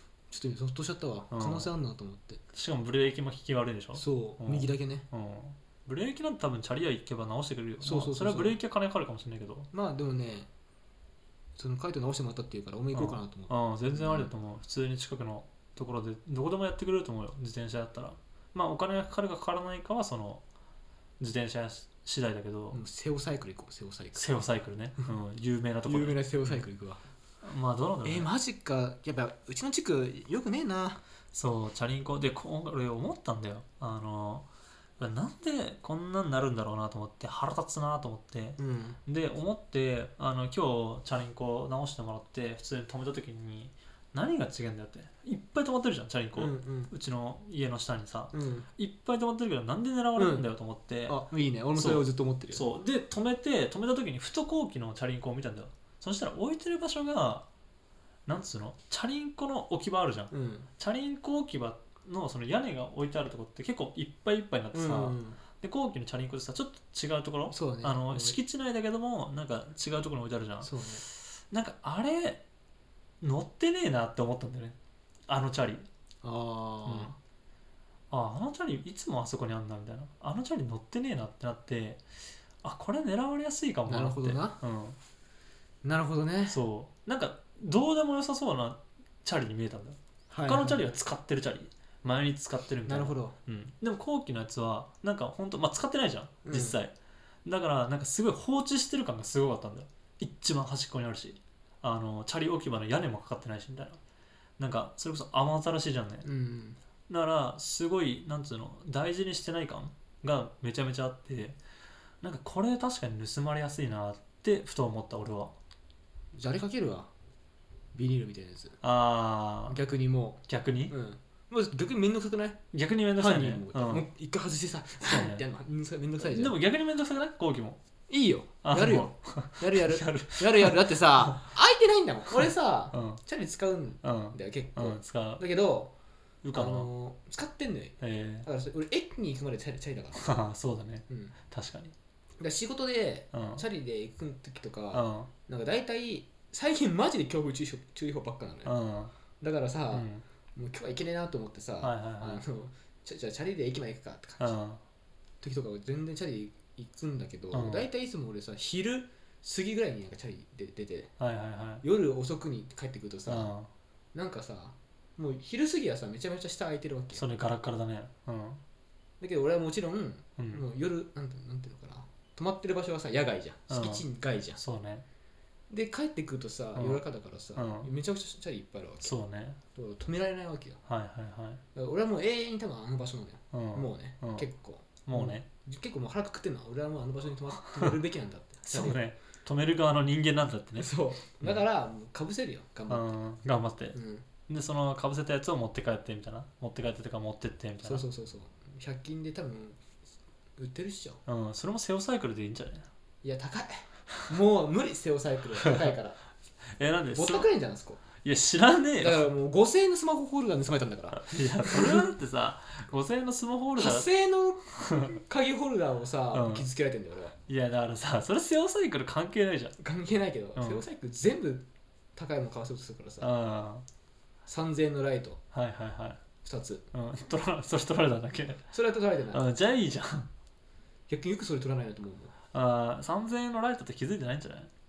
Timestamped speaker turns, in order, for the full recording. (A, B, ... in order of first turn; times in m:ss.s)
0:00.3-0:02.4 A
0:01.3-0:01.7 B
0:02.5-0:09.7 B
0:03.9-0:05.0 A
0:07.8-0:08.6 A
0:09.7-0:10.5 A
0:11.6-0:14.3 A
0:12.9-0:20.4 B
0:21.2-0:22.8 B
0:22.7-0:24.3 A
0:24.1-0:26.6 B
0:25.8-0:27.0 A
0:27.4-0:28.3 B
0:28.0-0:31.0 A
0:31.3-0:34.5 B
0:35.0-0:51.2 B
0:38.6-0:39.0 A
0:46.3-0:46.9 A
0:48.3-0:48.7 A
0:50.2-0:50.5 A
0:51.0-0:52.7 A
0:51.7-0:57.4 B
0:58.3-1:10.7 B
1:00.3-1:00.7 A
1:04.7-1:05.4 A
1:07.5-1:08.4 A
1:10.6-1:11.0 A
1:11.5-1:12.4 B
1:13.2-1:14.8 B
1:15.3-1:15.8 B
1:16.2-1:17.2 A
1:16.8-1:17.1 B
1:18.1-1:22.0 B
1:22.6-1:25.0 B
1:23.9-1:24.6 A
1:25.8-1:26.6 A
1:26.5-1:44.0 B
1:30.3-1:30.8 A
1:32.8-1:33.4 A
1:36.4-1:36.8 A
1:44.6-1:46.3 B
1:46.2-1:46.8 A
1:47.1-1:51.6 B
1:52.2-1:55.5 B
1:56.3-1:57.1 A
1:57.9-1:58.8 A
1:58.8-1:59.8 B
1:59.7-2:02.6 A
2:00.5-2:00.9 B
2:02.7-2:04.0 B
2:03.2-2:06.6 A
2:05.0-2:05.4 B
2:06.2-2:07.8 B
2:08.1-2:15.9 A
2:08.6-2:11.4 B
2:12.4-2:13.2 B
2:14.0-2:15.4 B
2:16.4-2:16.9 B
2:16.5-2:20.4 A
2:18.0-2:18.5 B
2:20.2-2:21.9 B
2:21.1-2:21.3 A
2:22.4-2:28.7 A
2:23.3-2:23.6 B
2:24.9-2:25.3 B
2:28.6-2:29.1 B
2:29.4-2:34.6 A
2:29.9-2:30.2 B
2:31.8-2:32.4 B
2:34.4-2:34.8 B
2:35.4-2:41.1 A
2:37.5-2:37.9 B
2:41.2-2:41.8 B
2:41.8-2:43.5 A
2:43.3-2:43.7 B
2:44.1-2:47.3 A
2:47.1-2:48.6 B
2:49.2-2:54.6 A
2:50.4-2:50.6 B
2:53.7-2:54.0 B
2:54.6-2:55.0 B
2:55.7-2:59.2 A
2:56.7-2:57.0 B
2:57.6-2:57.9 B
2:59.0-2:59.6 B
2:59.7-3:00.8 A
3:00.9-3:01.6 B
3:01.7-3:09.0 A
3:03.5-3:04.4 B
3:05.0-3:05.4 B
3:08.6-3:11.6 B
3:10.8-3:13.2 A
3:12.9-3:14.0 B
3:13.9-3:14.2 A
3:14.5-3:18.0 B
3:17.8-3:19.8 A
3:20.6-3:21.2 A
3:21.2-3:22.9 B
3:23.2-3:26.2 A
3:25.6-3:25.9 B
3:26.7-3:27.5 B
3:27.1-3:28.0 A
3:28.2-3:29.3 B
3:29.0-3:32.1 A
3:31.2-3:34.1 B
3:33.8-3:37.3 A
3:36.3-3:36.6 B
3:37.5-3:39.7 B
3:39.8-3:43.3 A
3:40.6-3:40.8 B
3:43.2-3:43.8 B
3:44.4-3:45.4 A
3:45.5-3:46.2 B
3:46.4-3:46.8 A
3:46.9-3:48.7 B
3:48.7-3:49.4 A
3:49.3-3:50.3 B
3:51.1-3:52.3 A
3:52.5-3:54.7 B